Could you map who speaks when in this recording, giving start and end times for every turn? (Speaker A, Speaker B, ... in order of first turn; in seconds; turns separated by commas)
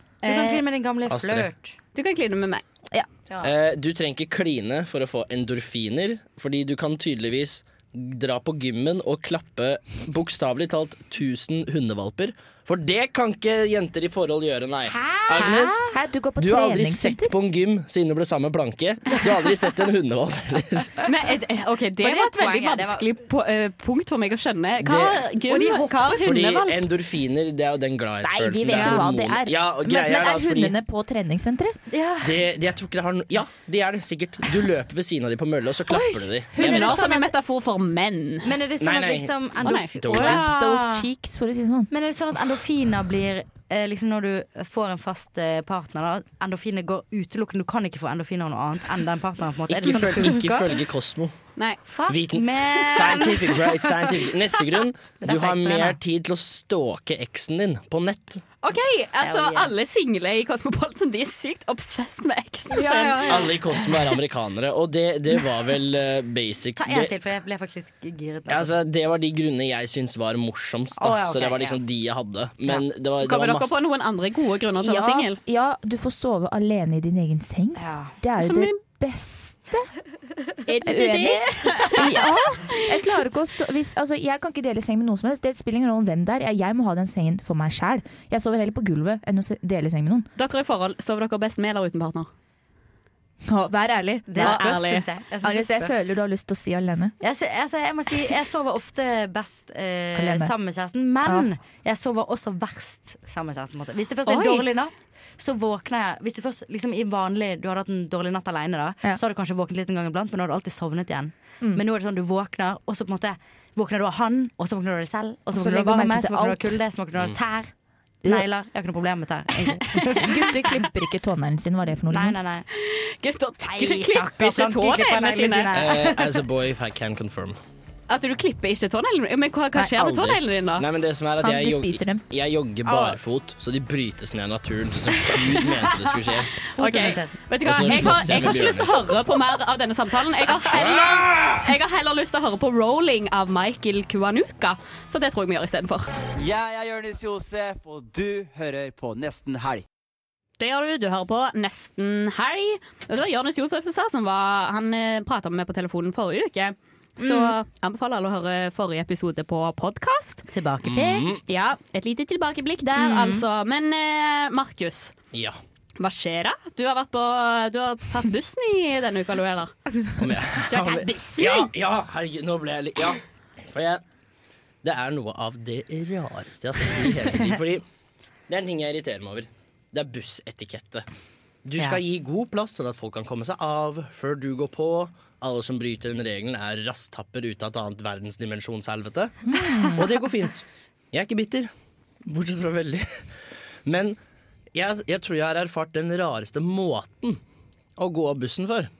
Speaker A: 0.2-0.6, Speaker B: 0.2-1.8, Speaker C: 1.1-1.5, Speaker A: 1.9-2.6, Speaker C: 3.4-15.8, Speaker B: 14.9-15.9, Speaker D: 15.9-17.3, Speaker C: 16.4-20.9, Speaker A: 21.0-26.8, Speaker B: 22.0-23.0, Speaker C: 24.8-25.2, Speaker B: 25.5-25.9, Speaker C: 26.1-30.8, Speaker D: 28.2-31.8, Speaker A: 28.7-29.0, Speaker B: 31.9-32.4, Speaker C: 32.2-37.0, Speaker B: 35.9-37.3, Speaker A: 36.5-38.5, Speaker B: 38.4-41.1, Speaker C: 38.8-40.5, Speaker A: 39.6-40.0, Speaker D: 40.1-41.9, Speaker B: 41.9-50.7, Speaker C: 49.7-51.3, Speaker B: 51.9-54.2, Speaker C: 52.1-58.4, Speaker B: 55.2-56.0, Speaker A: 58.6-63.5, Speaker B: 59.2-59.7, Speaker B: 62.7-64.0, Speaker C: 63.3-67.2, Speaker B: 66.8-68.8, Speaker C: 68.5-73.8, Speaker B: 70.9-71.8, Speaker A: 73.2-75.4, Speaker D: 74.8-79.9, Speaker B: 77.8-78.2, Speaker A: 78.4-78.8, Speaker A: 80.7-82.8, Speaker D: 80.8-90.3, Speaker A: 90.3-92.3, Speaker D: 93.5-97.2, Speaker B: 94.3-96.2, Speaker A: 94.3-95.1, Speaker B: 97.2-117.7, Speaker D: 100.1-100.5, Speaker A: 104.2-104.7, Speaker D: 115.5-116.8, Speaker B: 118.2-120.6, Speaker D: 120.1-122.4, Speaker B: 122.1-122.6, Speaker A: 122.7-125.7, Speaker B: 123.6-126.4, Speaker C: 125.7-127.6, Speaker A: 128.1-130.8, Speaker C: 129.8-136.5, Speaker D: 131.4-132.2, Speaker B: 132.9-133.2, Speaker B: 136.7-138.5, Speaker A: 136.8-146.1, Speaker C: 137.6-139.0, Speaker C: 140.7-141.5, Speaker E: 146.4-149.8, Speaker A: 150.6-160.4, Speaker B: 157.2-157.5, Speaker B: 160.5-161.4, Speaker C: 160.8-161.4, Speaker A: 161.5-165.1, Speaker B: 162.9-163.4, Speaker C: 165.3-165.6, Speaker A: 166.0-169.7, Speaker C: 170.2-174.0, Speaker A: 170.7-171.7, Speaker C: 174.8-177.8, Speaker C: 178.5-181.1, Speaker C: 181.6-189.4, Speaker D: 189.5-190.0, Speaker C: 189.9-191.7, Speaker C: 192.2-193.1, Speaker C: 193.8-194.2, Speaker C: 194.7-197.4, Speaker C: 198.0-198.9